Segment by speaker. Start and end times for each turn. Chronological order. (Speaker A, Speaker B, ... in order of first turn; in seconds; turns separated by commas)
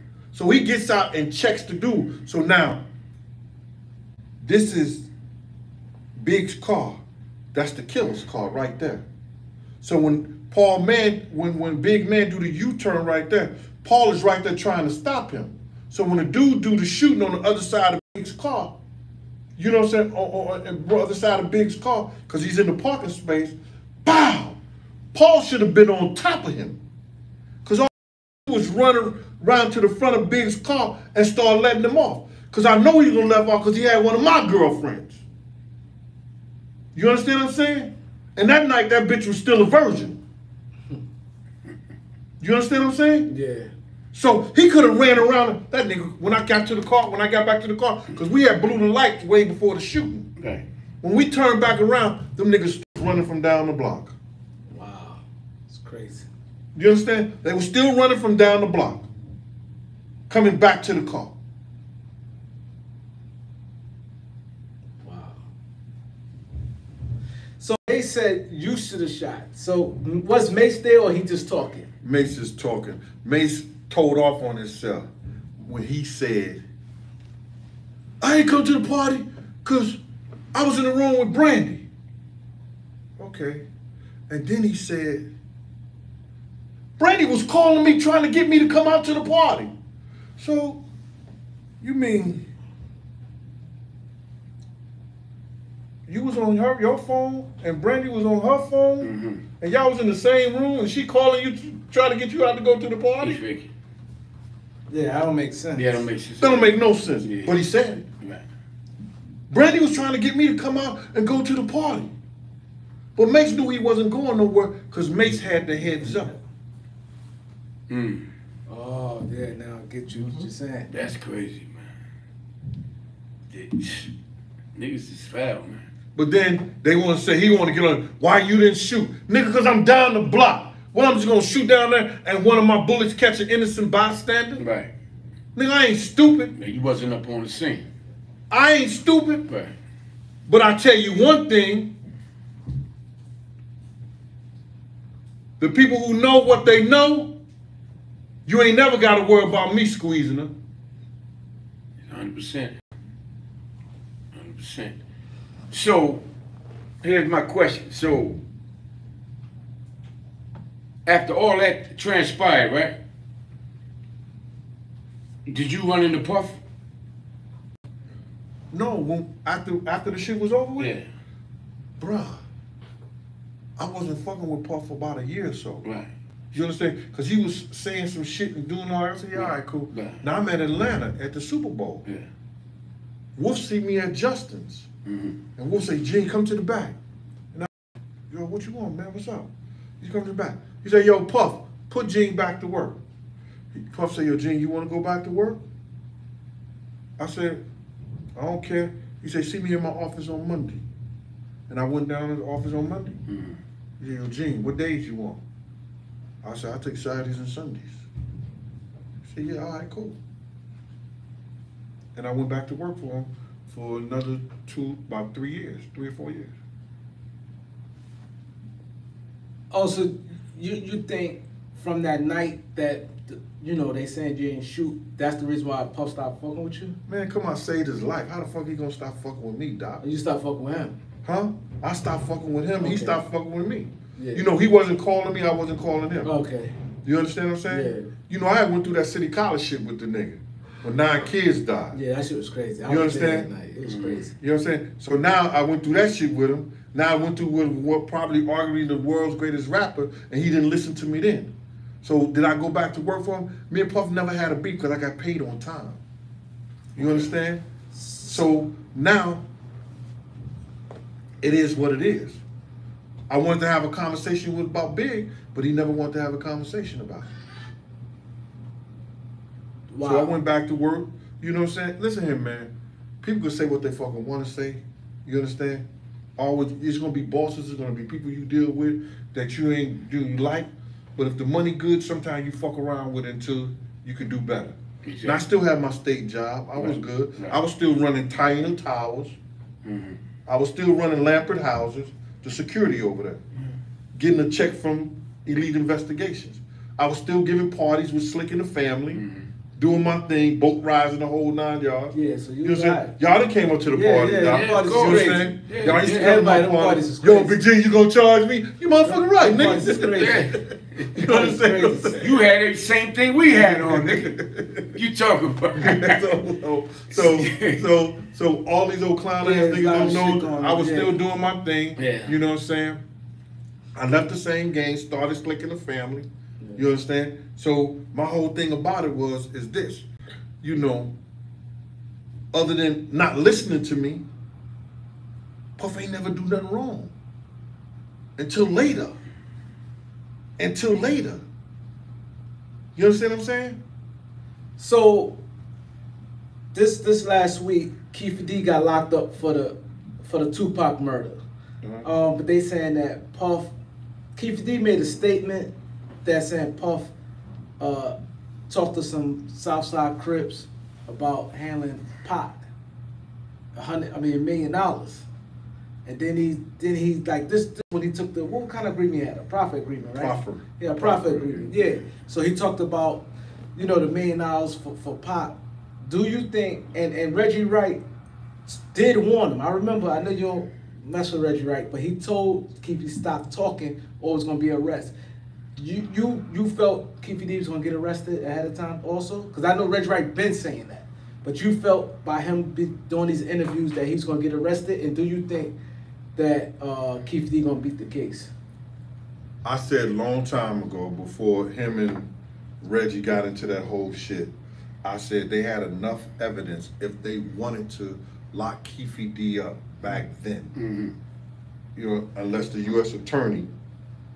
Speaker A: 0.3-2.8, Speaker A: 4.4-5.1, Speaker A: 6.2-7.0, Speaker A: 7.5-9.0, Speaker A: 9.8-18.8, Speaker A: 19.6-24.6, Speaker A: 25.1-26.8, Speaker A: 27.6-35.2, Speaker A: 36.9-40.2, Speaker A: 42.4-43.3, Speaker B: 43.3-43.7, Speaker A: 44.1-50.3, Speaker C: 50.4-50.6, Speaker A: 51.0-54.1, Speaker B: 54.7-56.3, Speaker A: 56.8-59.1, Speaker A: 60.3-61.4, Speaker B: 65.0-65.4, Speaker B: 67.6-71.9, Speaker A: 72.0-75.1, Speaker A: 75.6-76.6, Speaker A: 78.2-80.0, Speaker A: 80.5-81.8, Speaker A: 83.2-83.7, Speaker A: 84.3-85.3, Speaker A: 87.0-89.7, Speaker A: 90.4-90.8, Speaker A: 91.8-92.4, Speaker A: 96.1-103.4, Speaker C: 99.0-99.4, Speaker C: 103.2-103.7, Speaker B: 104.9-106.0, Speaker C: 105.8-107.6, Speaker A: 106.4-108.0, Speaker A: 109.5-112.1, Speaker A: 113.2-116.4, Speaker C: 117.9-118.3, Speaker B: 118.7-120.9, Speaker C: 120.9-121.9, Speaker C: 123.5-124.1, Speaker C: 124.8-125.8, Speaker A: 126.2-134.6, Speaker C: 134.6-134.9, Speaker A: 135.6-136.5, Speaker C: 136.6-137.8, Speaker A: 138.5-139.5, Speaker A: 140.5-141.9, Speaker A: 145.6-147.3, Speaker A: 148.5-150.5, Speaker C: 152.0-152.8, Speaker C: 154.3-155.0, Speaker C: 155.7-156.2, Speaker C: 157.0-158.4, Speaker C: 161.1-163.0, Speaker C: 165.5-166.6, Speaker A: 168.7-170.9, Speaker C: 170.8-171.0, Speaker A: 172.0-172.4, Speaker A: 173.8-175.9, Speaker C: 175.8-176.1, Speaker A: 176.5-182.1, Speaker C: 179.3-180.2, Speaker A: 183.4-184.9, Speaker C: 185.1-185.4, Speaker A: 185.6-187.0, Speaker A: 188.3-193.0, Speaker A: 193.7-195.6, Speaker A: 197.2-197.6, Speaker A: 198.4-200.8, Speaker A: 201.7-203.2, Speaker C: 203.3-203.6, Speaker A: 204.0-205.4, Speaker A: 206.4-208.0, Speaker A: 209.2-210.2, Speaker A: 212.2-216.5, Speaker B: 219.7-227.0, Speaker A: 227.1-230.0, Speaker B: 230.0-231.0, Speaker A: 231.2-236.3, Speaker B: 232.8-233.2, Speaker B: 234.2-234.4, Speaker B: 236.2-236.8, Speaker A: 237.0-242.0, Speaker B: 237.7-238.1, Speaker B: 241.9-244.3, Speaker A: 242.9-243.5, Speaker C: 243.8-244.3, Speaker A: 244.4-256.0, Speaker C: 257.0-257.3, Speaker A: 257.0-257.6, Speaker B: 257.9-258.5, Speaker A: 258.2-259.4, Speaker A: 261.4-262.4, Speaker A: 263.3-267.3, Speaker B: 269.9-270.3, Speaker A: 270.0-275.9, Speaker A: 276.4-289.3, Speaker C: 285.0-285.4, Speaker C: 286.8-287.6, Speaker C: 289.8-290.2, Speaker A: 290.5-293.4, Speaker A: 294.2-299.2, Speaker C: 299.1-299.5, Speaker A: 299.8-312.4, Speaker B: 302.1-303.1, Speaker B: 303.9-307.6, Speaker C: 304.4-306.4, Speaker B: 309.1-310.5, Speaker C: 310.0-311.1, Speaker B: 311.2-312.2, Speaker C: 312.2-314.4, Speaker A: 313.5-314.9, Speaker C: 314.9-316.2, Speaker A: 315.8-323.0, Speaker C: 317.1-317.8, Speaker B: 319.4-321.2, Speaker C: 322.0-322.4, Speaker A: 323.9-330.1, Speaker A: 330.6-331.1, Speaker A: 332.5-334.2, Speaker A: 335.8-337.1, Speaker A: 338.4-339.2, Speaker A: 340.6-341.4, Speaker A: 343.0-343.8, Speaker B: 344.8-345.4, Speaker B: 346.7-351.4, Speaker B: 352.0-353.7, Speaker B: 354.4-355.7, Speaker B: 356.2-357.1, Speaker B: 357.8-358.1, Speaker B: 358.7-362.6, Speaker B: 363.7-365.2, Speaker B: 366.1-373.2, Speaker A: 370.2-371.8, Speaker B: 373.8-378.0, Speaker B: 378.7-385.1, Speaker B: 385.8-395.7, Speaker B: 396.4-398.5, Speaker A: 399.6-402.3, Speaker A: 402.8-410.8, Speaker C: 410.8-411.1, Speaker A: 412.0-413.7